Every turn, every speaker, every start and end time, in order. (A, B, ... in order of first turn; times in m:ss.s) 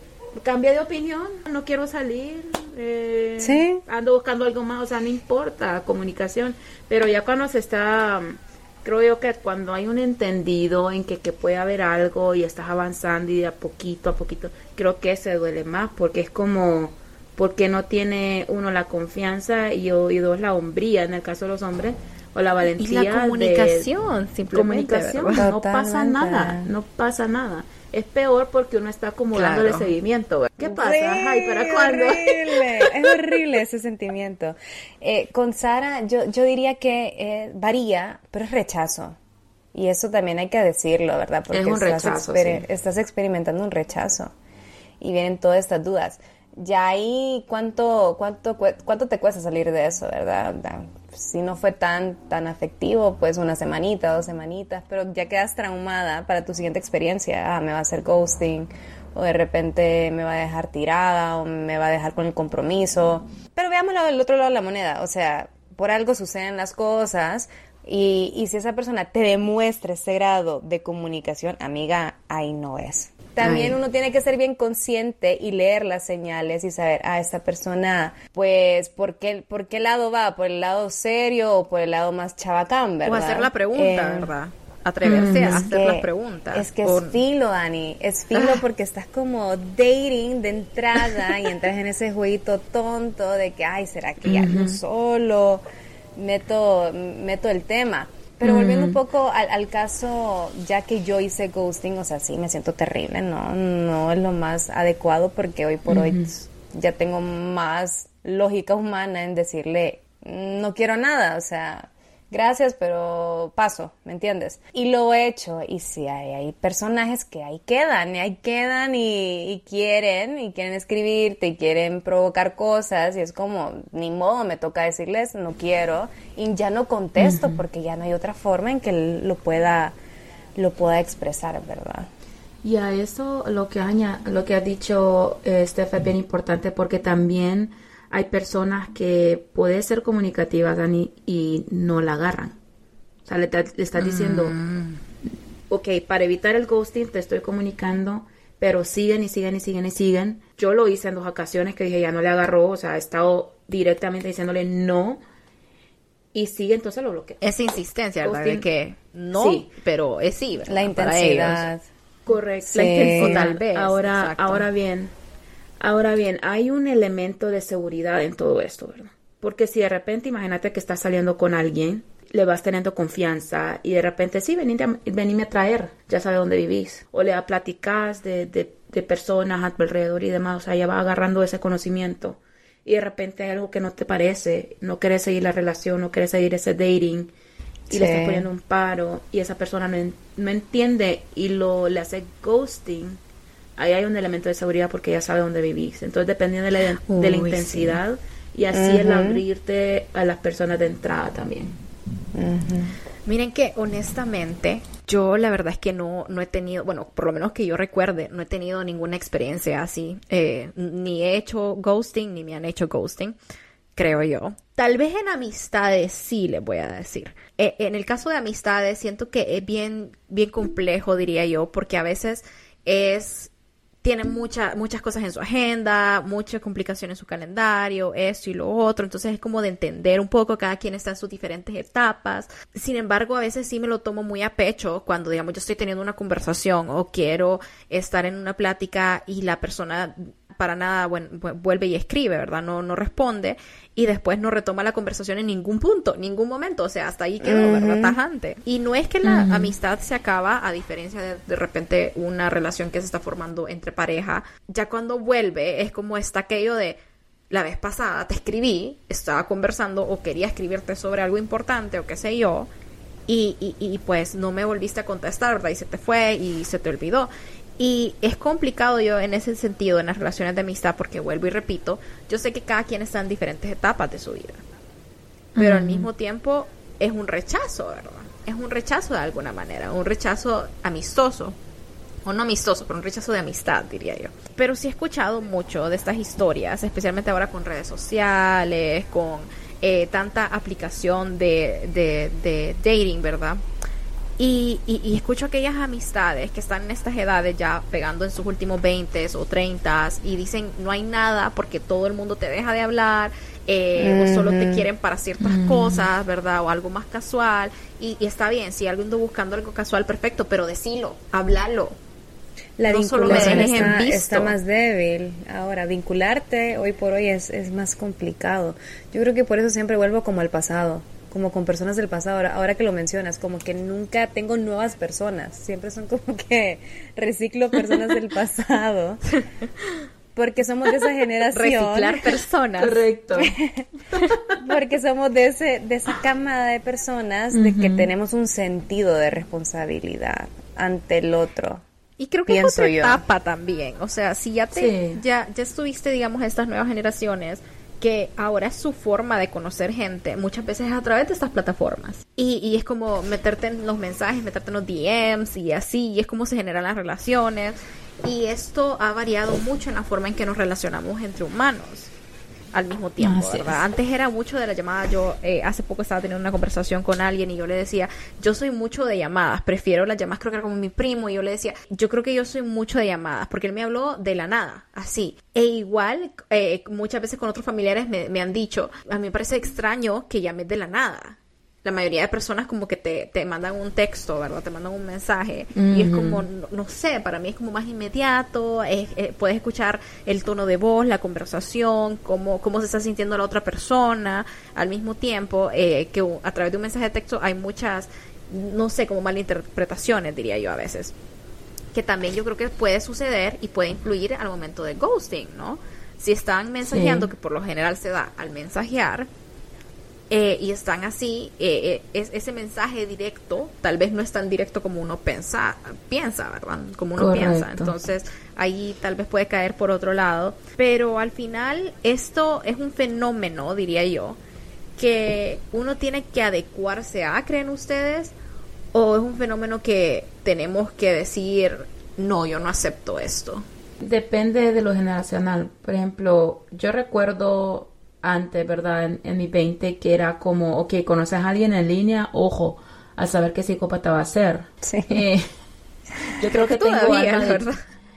0:00.4-0:23.9 A
0:03.4-0:03.8 B
0:22.8-0:25.4 C
0:24.5-0:32.9 A
0:25.4-0:26.7 B
0:29.3-0:29.8 B
0:29.4-0:29.8 C
0:30.6-0:39.2 B
0:39.7-0:44.3 B
0:41.5-0:42.6 A
0:45.0-1:24.3 B
1:13.4-1:13.8 C
1:23.0-1:27.2 C
1:25.0-1:25.7 A
1:25.3-1:35.6 B
1:34.2-1:34.8 A
1:36.2-2:09.9 B
1:38.4-1:39.0 A
1:45.9-1:46.3 A
2:07.2-2:07.6 A
2:10.6-2:12.1 B
2:12.6-2:22.6 A
2:23.2-2:24.6 A
2:24.0-2:25.0 C
2:25.7-2:35.2 A
2:36.3-2:37.4 A
2:37.4-2:41.6 C
2:38.2-2:38.6 A
2:39.3-2:39.7 A
2:40.7-2:41.8 B
2:42.3-2:45.1 A
2:42.6-2:43.4 B
2:42.7-2:44.6 C
2:45.8-3:07.3 A
3:07.9-3:08.5 B
3:07.9-3:13.2 A
3:13.8-3:21.8 A
3:17.0-3:18.0 C
3:18.7-3:19.4 B
3:22.3-3:23.0 B
3:23.2-3:33.4 C
3:34.0-3:43.5 C
3:44.0-4:17.0 C
4:07.4-4:08.2 B
4:09.2-4:09.7 A
4:17.5-4:22.7 C
4:23.3-4:34.6 C
4:35.5-4:36.1 A
4:35.6-4:41.6 C
4:42.2-4:53.6 C
4:54.4-5:12.0 C
5:04.0-5:04.9 B
5:05.4-5:06.1 A
5:12.8-5:29.2 B
5:12.9-5:14.5 C
5:13.2-5:14.0 A
5:30.3-5:32.3 B
5:31.5-5:33.0 C
5:32.8-5:33.5 A
5:33.4-5:33.9 B
5:34.1-5:34.5 A
5:34.6-5:41.8 B
5:37.5-5:38.1 A
5:42.2-6:02.1 C
5:42.5-5:43.2 B
5:44.7-5:45.2 A
6:02.7-6:41.1 C
6:03.2-6:03.8 A
6:25.7-6:26.4 A
6:41.9-6:49.3 C
6:46.8-6:47.3 A
6:50.3-7:04.4 C
6:57.2-6:57.9 A
7:05.0-7:08.3 C
7:08.9-7:13.6 C
7:14.0-7:25.4 A
7:24.8-7:25.2 B
7:26.4-7:27.7 A
7:26.5-7:27.8 C